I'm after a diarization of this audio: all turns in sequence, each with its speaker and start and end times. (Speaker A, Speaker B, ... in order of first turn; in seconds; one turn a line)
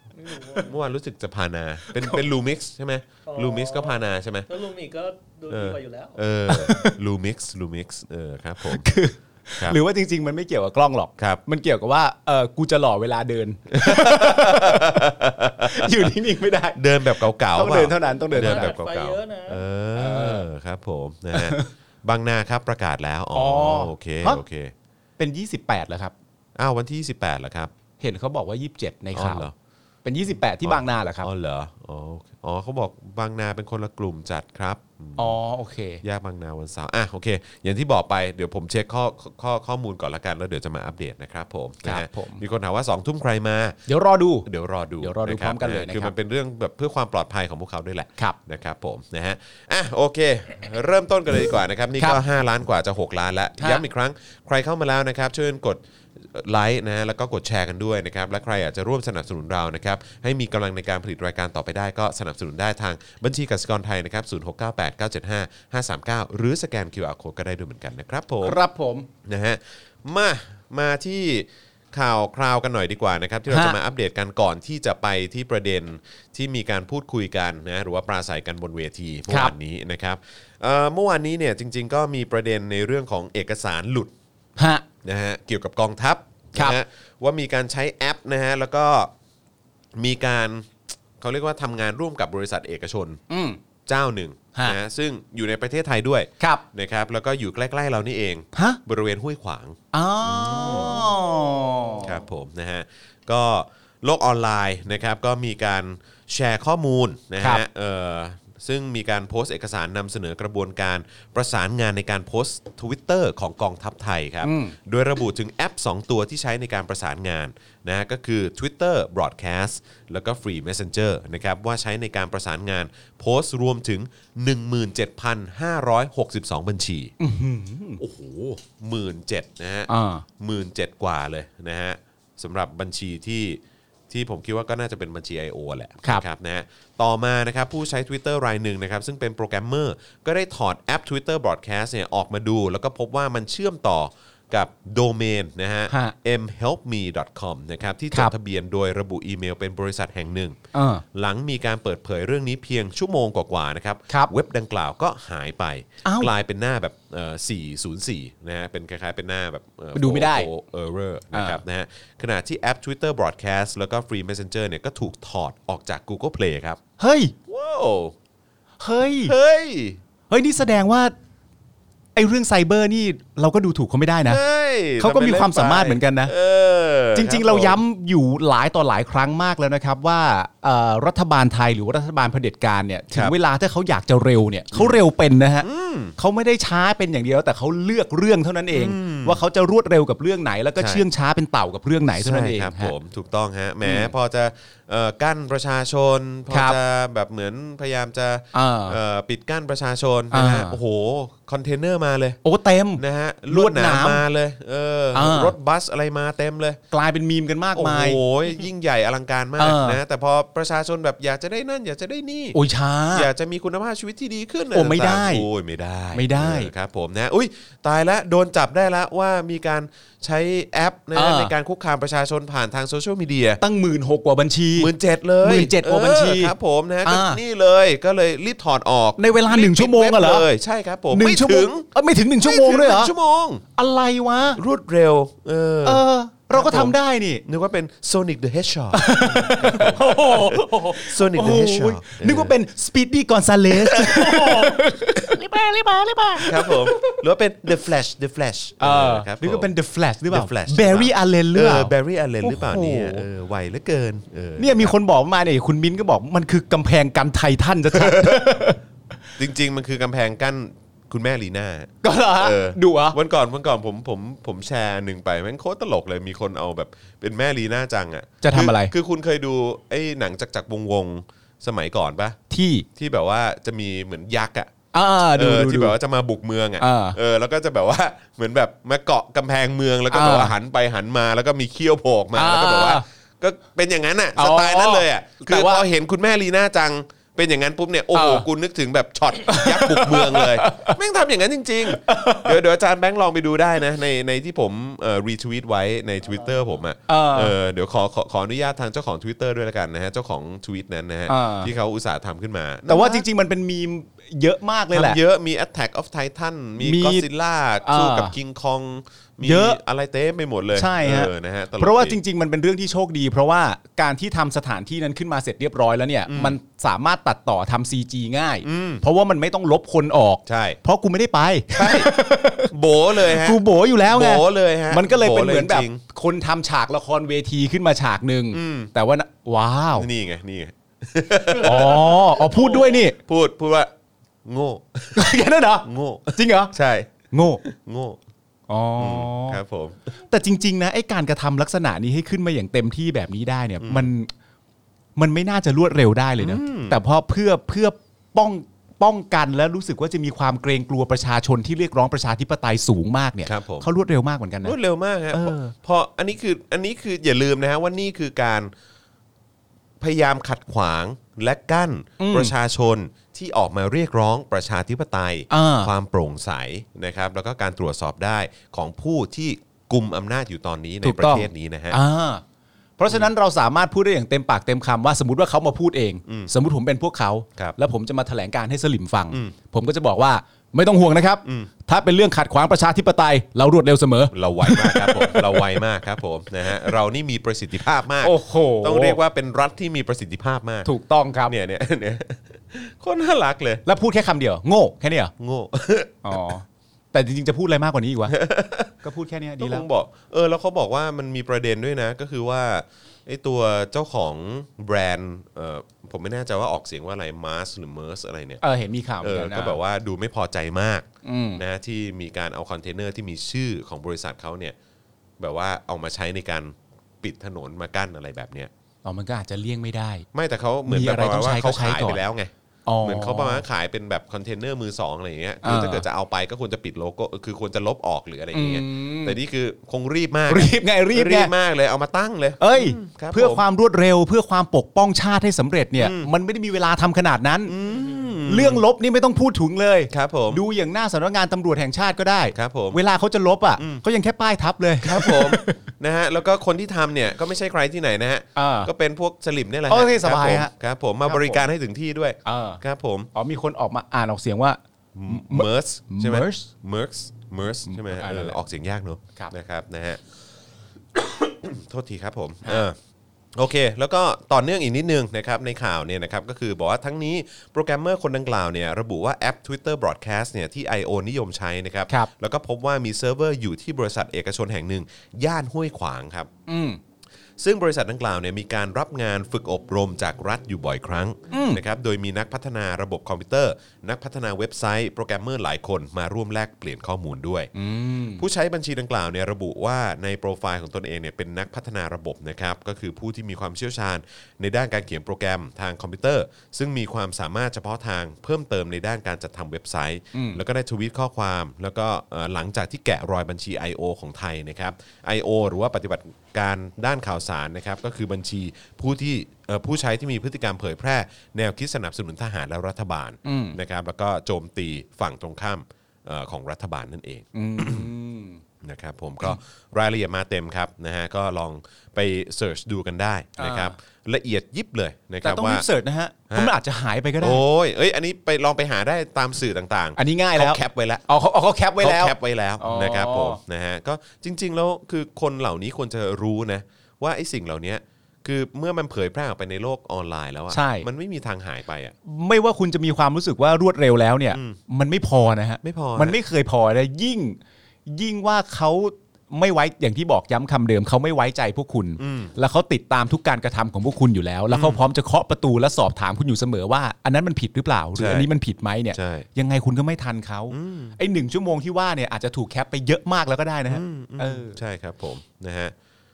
Speaker A: 0.2-0.7
Speaker B: 0.6-4.5
Speaker C: 1.9-2.2
Speaker A: 3.3-6.2
Speaker B: 5.5-8.8
Speaker C: 6.5-7.0
Speaker C: 8.6-18.8
Speaker B: 13.7-16.1
Speaker B: 16.8-24.7
Speaker A: 18.3-19.6
Speaker C: 20.0-20.5
Speaker C: 21.3-21.7
Speaker C: 23.3-24.4
Speaker C: 25.2-26.1
Speaker B: 26.6-27.7
Speaker C: 28.0-29.5
Speaker B: 29.1-29.5
Speaker C: 30.1-31.3
Speaker B: 30.6-35.4
Speaker C: 35.2-36.0
Speaker B: 36.0-43.8
Speaker C: 41.8-42.4
Speaker C: 43.9-44.5
Speaker B: 44.5-68.6
Speaker C: 45.0-46.1
Speaker C: 53.6-53.8
Speaker C: 68.4-69.1
Speaker B: 69.2-84.1
Speaker C: 73.5-73.8
Speaker C: 79.3-79.5
Speaker C: 84.6-84.8
Speaker B: 85.0-89.1
Speaker B: 90.0-93.2
Speaker C: 93.3-93.6
Speaker B: 93.9-101.1
Speaker C: 98.5-98.8
Speaker C: 99.9-102.2
Speaker B: 102.0-127.1
Speaker C: 114.4-114.8
Speaker C: 127.2-128.0
Speaker B: 128.0-150.6
Speaker C: 129.9-130.2
Speaker C: 150.7-151.0
Speaker B: 151.1-166.8
Speaker C: 156.1-156.3
Speaker C: 159.9-160.5
Speaker C: 161.3-161.6
Speaker C: 167.0-167.3
Speaker B: 167.5-168.2
Speaker C: 168.8-169.3
Speaker B: 169.2-170.0
Speaker C: 170.3-171.1
Speaker C: 172.2-174.4
Speaker B: 174.3-177.8
Speaker C: 175.0-176.3
Speaker C: 177.2-192.9
Speaker B: 184.7-185.0
Speaker B: 185.6-186.2
Speaker B: 188.7-189.4
Speaker B: 190.8-191.1
Speaker B: 192.1-202.4
Speaker C: 193.8-194.1
Speaker C: 196.5-196.8
Speaker C: 198.5-199.0
Speaker C: 200.3-200.8
Speaker C: 202.4-204.2
Speaker B: 203.0-206.8
Speaker C: 205.1-205.6
Speaker C: 206.9-208.2
Speaker B: 207.8-212.6
Speaker C: 209.6-210.0
Speaker C: 212.5-213.3
Speaker B: 213.1-223.6
Speaker C: 214.7-215.4
Speaker C: 216.1-216.7
Speaker C: 221.2-221.5
Speaker C: 223.6-226.5
Speaker B: 224.8-231.9
Speaker C: 227.1-227.4
Speaker C: 229.2-230.5
Speaker C: 231.1-233.1
Speaker B: 232.4-233.6
Speaker C: 233.8-234.6
Speaker B: 234.6-242.5
Speaker C: 235.8-237.4
Speaker C: 238.9-247.2
Speaker A: 239.9-241.0
Speaker B: 243.7-244.8
Speaker B: 246.4-249.7
Speaker C: 248.8-253.3
Speaker B: 250.3-254.9
Speaker C: 254.6-258.8
Speaker B: 257.9-258.4
Speaker B: 259.4-272.4
Speaker C: 262.0-263.2
Speaker C: 268.4-268.9
Speaker C: 272.5-272.9
Speaker B: 273.0-274.7
Speaker C: 274.9-276.0
Speaker B: 275.3-303.3
Speaker C: 276.8-277.2
Speaker C: 280.1-280.5
Speaker C: 282.4-283.1
Speaker C: 284.4-285.9
Speaker C: 288.1-288.5
Speaker C: 289.4-291.0
Speaker C: 291.9-292.6
Speaker C: 297.1-297.6
Speaker C: 301.3-301.7
Speaker C: 302.9-305.2
Speaker B: 304.9-312.2
Speaker C: 306.8-307.3
Speaker C: 307.8-308.4
Speaker C: 309.4-309.8
Speaker C: 310.7-330.1
Speaker B: 316.3-316.6
Speaker B: 318.6-319.0
Speaker B: 320.5-320.8
Speaker B: 321.7-322.1
Speaker B: 322.7-326.0
Speaker B: 328.5-328.9
Speaker B: 330.0-333.9
Speaker C: 331.6-333.2
Speaker B: 334.4-337.1
Speaker C: 335.1-336.7
Speaker C: 337.3-337.6
Speaker B: 337.6-338.2
Speaker C: 338.7-339.6
Speaker B: 339.0-340.1
Speaker C: 340.3-344.3
Speaker B: 343.8-344.1
Speaker C: 345.2-354.8
Speaker B: 346.4-347.0
Speaker B: 353.4-353.9
Speaker B: 354.6-358.7
Speaker C: 355.3-355.7
Speaker B: 360.0-372.0
Speaker C: 362.2-362.5
Speaker C: 365.5-365.9
Speaker C: 371.0-372.4
Speaker C: 373.0-385.8
Speaker B: 384.3-390.9
Speaker C: 388.2-389.2
Speaker C: 390.9-391.5
Speaker B: 391.5-393.8
Speaker C: 393.9-395.3
Speaker B: 395.4-396.5
Speaker C: 396.2-398.4
Speaker B: 398.3-398.9
Speaker C: 399.0-399.9
Speaker B: 399.6-408.6
Speaker C: 408.6-409.8
Speaker B: 409.2-414.8
Speaker C: 411.2-411.6
Speaker B: 415.4-418.7
Speaker C: 419.1-420.3
Speaker B: 420.3-422.5
Speaker C: 420.9-422.2
Speaker C: 422.9-423.6
Speaker B: 423.0-433.6
Speaker C: 425.6-426.1
Speaker C: 428.5-429.4
Speaker C: 430.5-431.5
Speaker C: 432.6-437.8
Speaker B: 436.0-436.3
Speaker B: 437.7-438.8
Speaker C: 438.5-445.8
Speaker B: 440.1-440.6
Speaker B: 442.5-443.0
Speaker B: 445.0-453.3
Speaker C: 448.6-448.9
Speaker C: 449.9-450.7
Speaker C: 451.2-451.7
Speaker C: 452.4-452.8
Speaker C: 453.3-456.7
Speaker B: 455.1-460.2
Speaker C: 457.9-458.6
Speaker B: 461.2-463.0
Speaker B: 463.6-476.5
Speaker C: 476.7-477.0
Speaker B: 477.6-487.7
Speaker C: 481.5-481.8
Speaker C: 487.8-488.4
Speaker B: 488.4-518.1
Speaker C: 500.3-500.6
Speaker C: 513.5-513.8
Speaker C: 517.5-518.6
Speaker B: 518.8-525.9
Speaker C: 523.6-524.0
Speaker C: 525.4-527.6
Speaker B: 527.4-531.2
Speaker C: 530.2-533.6
Speaker B: 532.0-542.1
Speaker C: 540.7-541.1
Speaker C: 542.2-564.8
Speaker B: 544.5-544.8
Speaker B: 545.8-546.4
Speaker B: 552.2-552.5
Speaker B: 554.7-555.0
Speaker B: 558.2-558.5
Speaker B: 559.1-559.5
Speaker B: 560.7-561.2
Speaker B: 563.9-565.9